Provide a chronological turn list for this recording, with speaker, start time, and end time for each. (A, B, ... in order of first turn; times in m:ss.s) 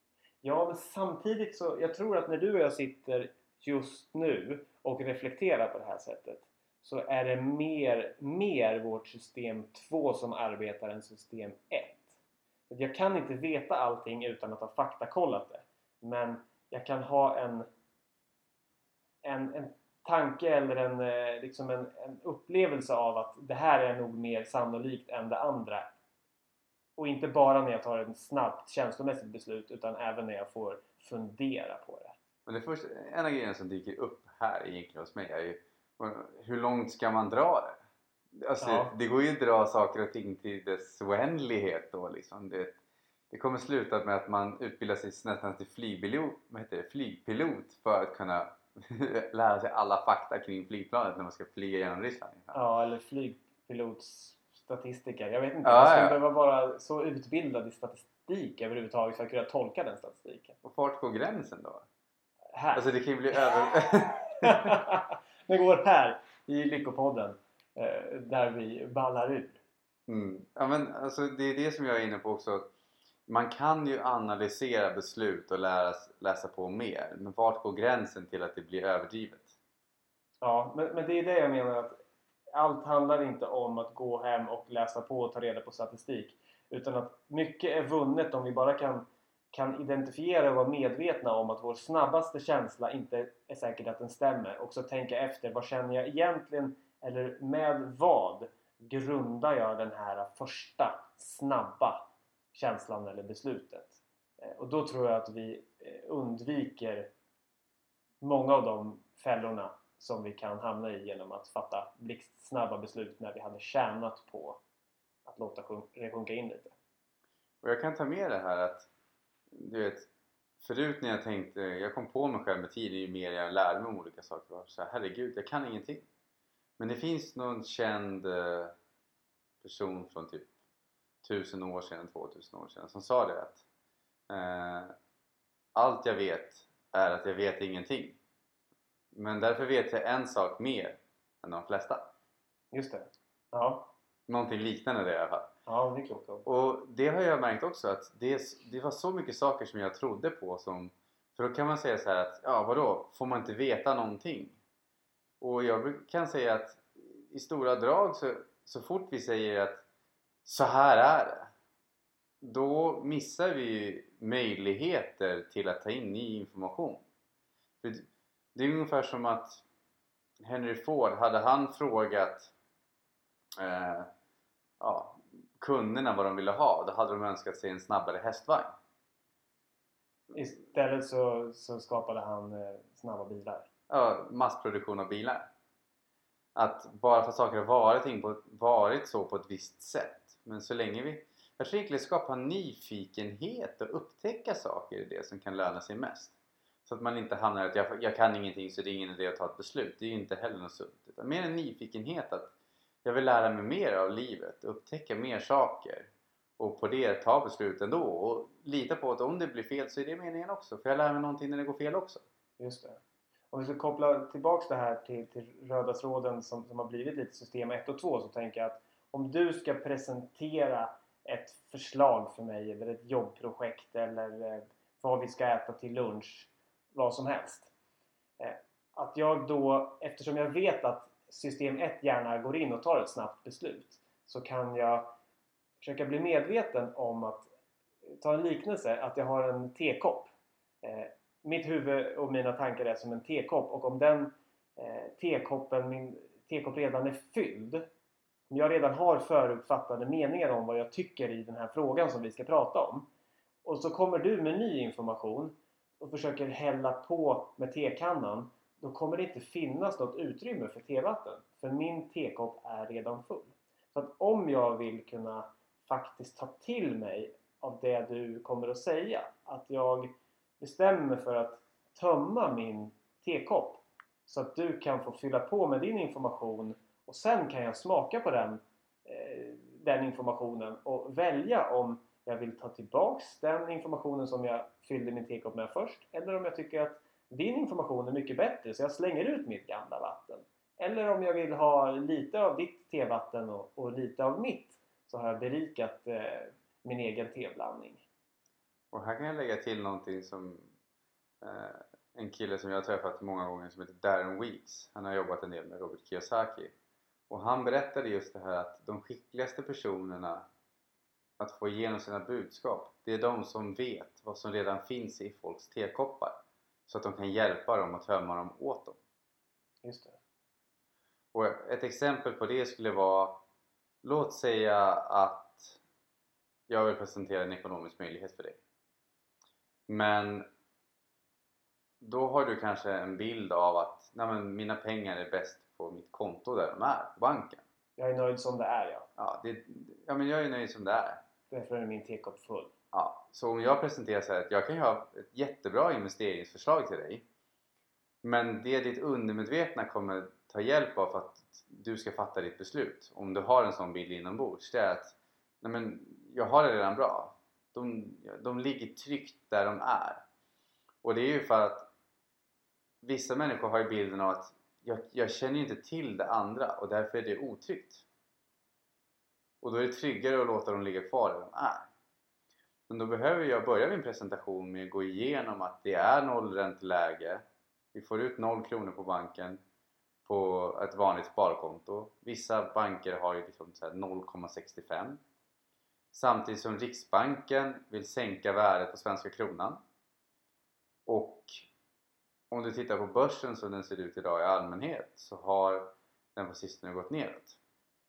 0:00.4-0:12.2 A
0:12.7-0:17.7 A
0:19.2-0:25.9 A
0:27.0-0:32.1 A
0:32.5-0:37.8 B
0:38.4-0:42.8 B
0:38.6-0:38.9 A
0:43.3-0:52.6 B
0:52.5-1:00.6 A
0:55.6-0:56.2 B
1:00.6-1:01.9 B
1:02.5-1:02.8 A
1:02.7-1:04.8 B
1:03.4-1:09.6 A
1:10.1-1:12.7 B
1:13.3-1:19.6 B
1:20.4-1:22.0 A
1:22.6-1:47.1 A
1:48.2-1:54.6 A
1:55.2-1:56.8 A
1:57.6-1:58.9 B
1:59.5-2:00.1 B
2:00.6-2:06.1 B
2:06.8-2:08.8 B
2:09.6-2:10.5 B
2:11.2-2:13.6 B
2:14.3-2:14.9 B
2:15.8-2:18.2 B
2:19.1-2:22.1 B
2:22.7-2:23.9 A
2:24.3-2:25.5 B
2:25.7-2:26.5 A
2:26.5-2:34.6 B
2:35.4-2:39.8 B
2:40.4-2:41.5 B
2:42.4-2:47.0 B
2:47.8-2:49.6 B
2:50.4-2:52.5 B
2:53.6-2:54.1 B
2:54.8-2:58.7 B
3:00.3-3:03.7 A
3:03.9-3:05.5 B
3:06.6-3:16.4 B
3:16.9-3:22.5 B
3:23.0-3:32.2 B
3:32.6-3:33.0 A
3:33.5-3:47.7 A
3:48.4-3:55.1 A
3:55.8-3:57.5 A
3:58.1-4:00.3 A
4:00.8-4:07.8 A
4:08.5-4:13.1 A
4:13.6-4:58.0 A
4:58.9-5:00.7 B
5:01.4-5:06.7 B
5:07.3-5:10.5 B
5:11.4-5:19.0 B
5:19.8-5:20.2 A
5:21.3-5:23.4 B
5:24.0-5:25.8 B
5:26.7-5:28.6 B
5:29.9-5:30.5 B
5:32.0-5:37.6 B
5:38.0-5:39.1 A
5:39.2-5:41.2 B
5:41.5-5:42.7 A
5:42.9-5:47.2 B
5:48.2-6:00.2 B
6:01.0-6:01.9 B
6:03.0-6:08.0 B
6:09.6-6:11.9 B
6:12.9-6:19.6 B
6:20.3-6:25.2 B
6:26.1-6:29.8 B
6:31.1-6:31.7 B
6:32.5-6:37.6 B